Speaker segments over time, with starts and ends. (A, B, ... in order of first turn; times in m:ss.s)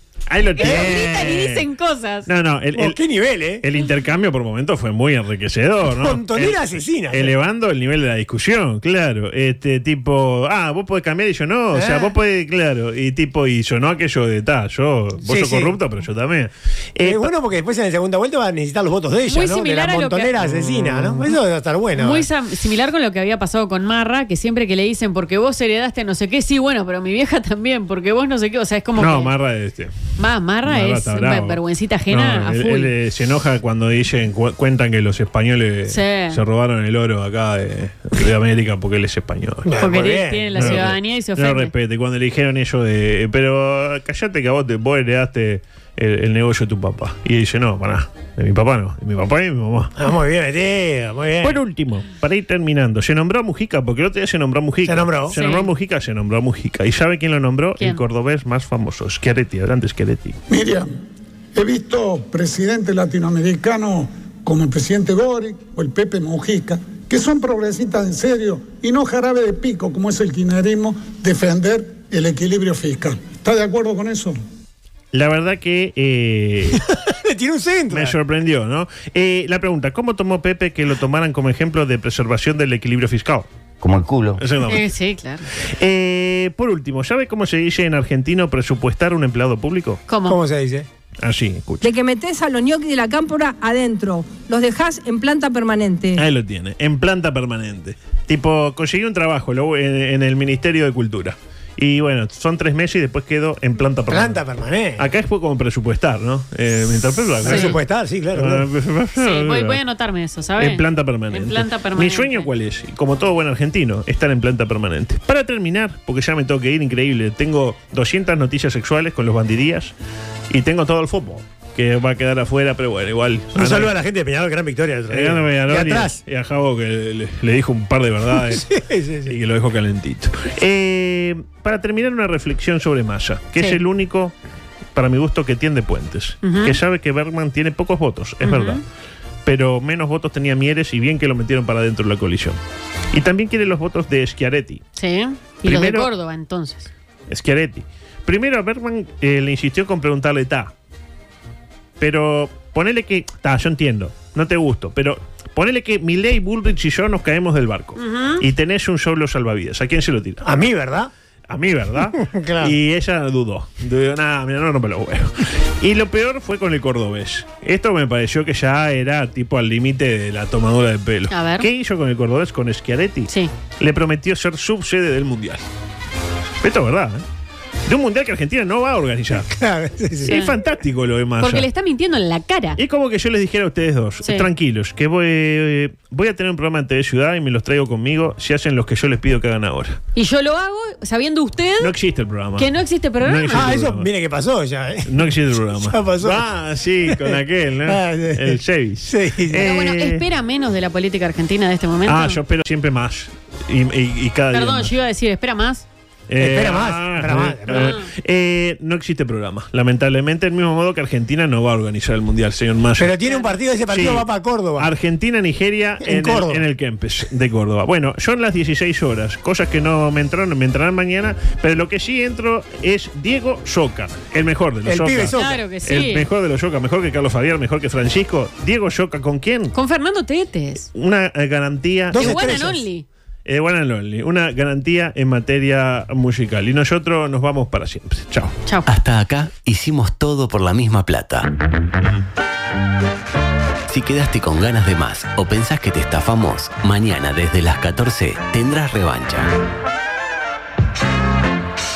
0:00.3-0:01.6 A
0:00.5-0:02.3 B
0:02.3-0:03.0 A
0:02.7-0:03.6 C
0:03.6-0:17.3 A
0:06.0-0:07.3 C
0:11.7-0:12.2 C
0:15.2-0:15.8 C
0:17.0-0:22.3 C
0:19.3-0:20.3 B
0:20.4-0:21.3 A
0:22.0-0:29.3 B
0:29.0-0:29.9 A
0:30.2-0:32.9 B
0:30.6-0:39.8 A
0:35.8-0:36.4 B
0:39.6-0:40.8 C
0:39.8-0:41.7 B
0:40.5-0:49.9 A
0:50.0-0:51.6 C
0:51.4-1:00.4 A
0:54.8-0:55.4 C
0:55.3-0:55.7 B
1:00.5-1:00.9 D
1:01.5-1:14.4 D
1:15.1-1:16.8 A
1:16.7-1:18.2 C
1:17.9-1:23.5 A
1:23.8-1:24.4 E
1:24.4-1:24.9 A
1:24.6-1:25.5 B
1:25.8-1:30.0 A
1:30.1-1:30.4 B
1:30.2-1:30.9 C
1:31.2-1:31.9 A
1:31.8-1:36.2 F
1:36.2-1:44.4 A
1:44.1-1:45.1 C
1:45.0-1:47.8 A
1:47.4-1:48.7 C
1:47.4-1:47.8 B
1:48.3-1:49.8 A
1:49.2-1:52.5 B
1:50.6-1:59.9 A
2:00.5-2:03.9 A
2:03.5-2:06.2 C
2:05.1-2:08.7 A
2:08.3-2:09.4 C
2:09.3-2:14.3 A
2:13.6-2:13.8 B
2:14.9-2:18.8 A
2:16.4-2:16.8 B
2:18.4-2:18.8 B
2:19.4-2:22.6 A
2:23.1-2:24.8 A
2:25.0-2:26.9 B
2:25.6-2:26.1 A
2:27.3-2:30.7 A
2:32.0-2:40.4 A
2:38.0-2:38.4 B
2:40.4-2:41.1 C
2:41.5-2:55.6 A
2:42.1-2:42.8 C
2:51.3-2:51.7 B
2:53.3-2:53.5 B
2:56.6-2:57.2 A
2:57.9-2:59.5 A
2:59.4-3:00.4 C
3:00.2-3:00.5 B
3:00.2-3:01.7 A
3:01.4-3:02.8 B
3:02.8-3:10.0 A
3:04.2-3:04.5 B
3:10.1-3:11.9 B
3:11.8-3:12.7 A
3:12.6-3:13.7 B
3:13.2-3:14.1 A
3:13.5-3:16.5 C
3:15.1-3:20.2 A
3:17.0-3:19.7 C
3:19.6-3:22.4 B
3:22.0-3:24.9 A
3:24.5-3:25.8 B
3:26.3-3:33.2 A
3:26.4-3:28.0 C
3:27.7-3:28.0 B
3:33.0-3:34.9 C
3:33.2-3:33.5 B
3:33.9-3:49.7 A
3:36.0-3:36.6 C
3:44.8-3:45.6 C
3:45.3-3:46.3 B
3:49.7-3:50.9 B
3:50.9-3:52.6 A
3:52.1-3:52.9 C
3:52.2-3:53.0 B
3:53.4-3:58.6 A
3:58.8-4:01.5 E
4:03.9-4:09.5 E